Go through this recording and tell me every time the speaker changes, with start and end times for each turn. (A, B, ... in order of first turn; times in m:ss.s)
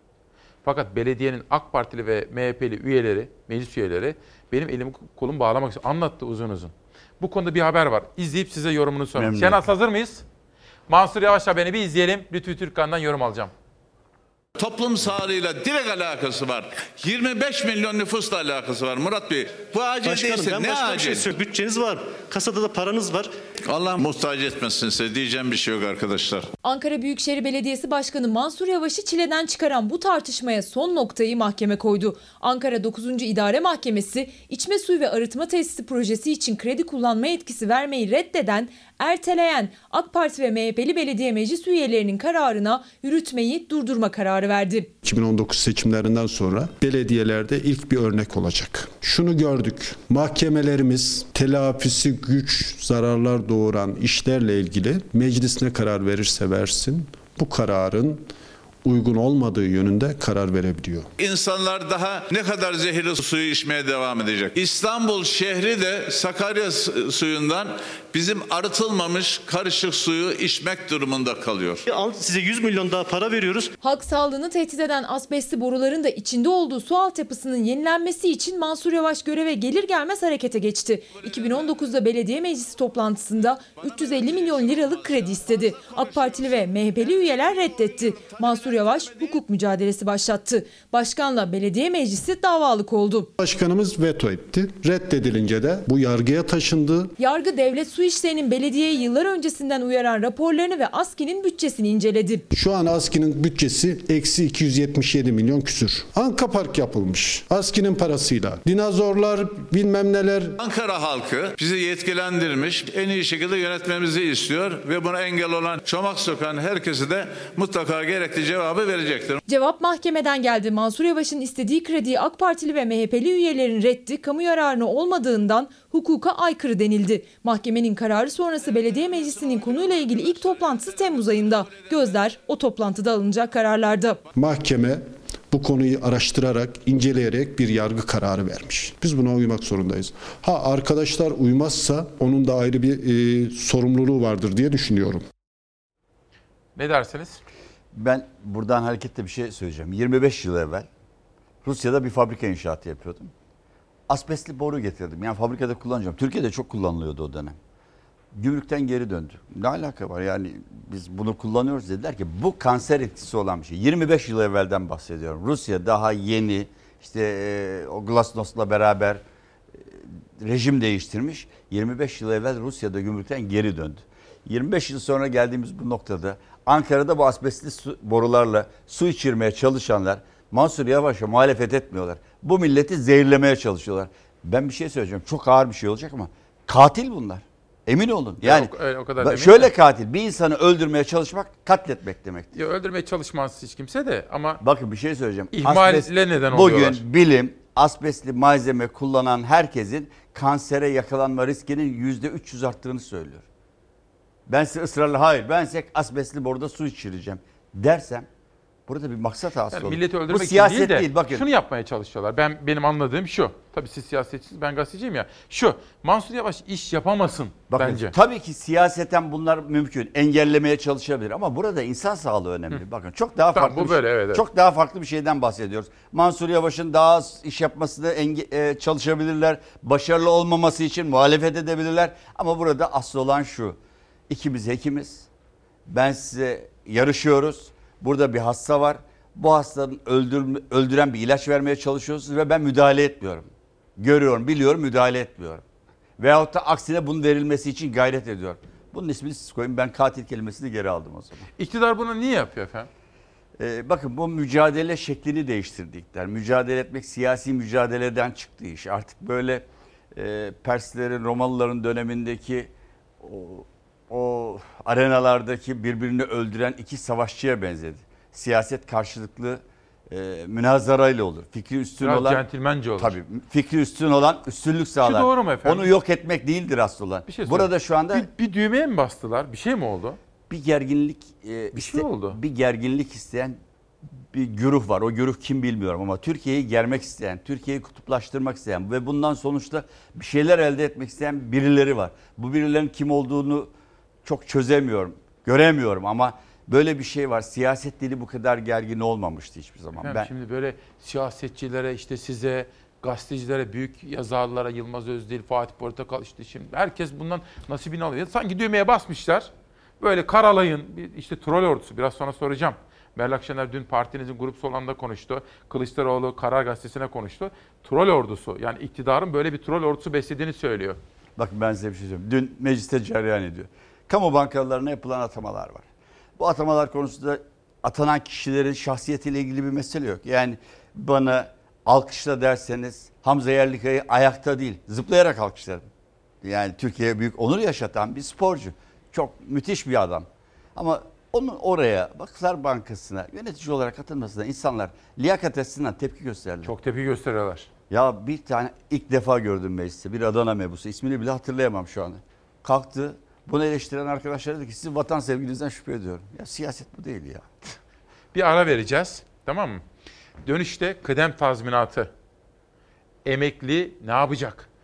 0:00.6-0:10.2 A
0:09.2-0:09.6 B
0:10.9-0:13.5 A
0:14.6-0:21.3 C
0:20.0-0:23.3 D
0:23.6-0:26.5 C
0:26.6-0:44.9 E
0:45.0-0:58.3 F
0:58.8-1:01.1 F
1:01.2-1:11.9 C
1:11.9-1:13.7 D
1:13.8-1:33.3 E
1:33.4-1:37.1 F
1:37.2-1:42.4 E
1:42.5-1:50.6 F
1:50.6-1:59.4 C
1:59.5-2:14.2 E
2:14.3-2:25.2 F
2:26.8-2:27.4 A
2:27.9-2:30.9 B
2:31.6-2:33.3 B
2:34.1-2:37.6 B
2:38.3-2:49.2 B
2:49.8-3:12.5 B
3:08.4-3:09.7 A
3:12.5-3:14.6 A
3:14.6-3:23.4 B
3:15.5-3:17.0 A
3:24.5-3:28.3 B
3:28.9-3:31.4 B
3:29.7-3:38.2 A
3:37.7-3:53.8 B
3:43.5-3:44.4 A
3:54.3-3:55.3 B
3:55.9-4:05.6 B
4:06.2-4:11.5 B
4:11.6-4:12.9 A
4:13.6-4:22.7 B
4:23.2-4:32.4 B
4:32.0-4:33.2 A
4:33.0-4:38.3 B
4:35.0-4:35.9 A
4:37.3-4:40.2 A
4:40.5-4:43.6 B
4:41.7-4:42.4 A
4:44.3-4:53.7 B
4:54.2-5:00.3 B
5:00.0-5:21.0 A
5:21.4-5:25.9 B
5:26.4-5:35.9 B
5:36.4-5:46.7 B
5:46.6-5:47.7 A
5:47.9-5:57.8 B
5:58.3-5:59.8 A
6:00.4-6:02.1 A
6:03.2-6:04.7 A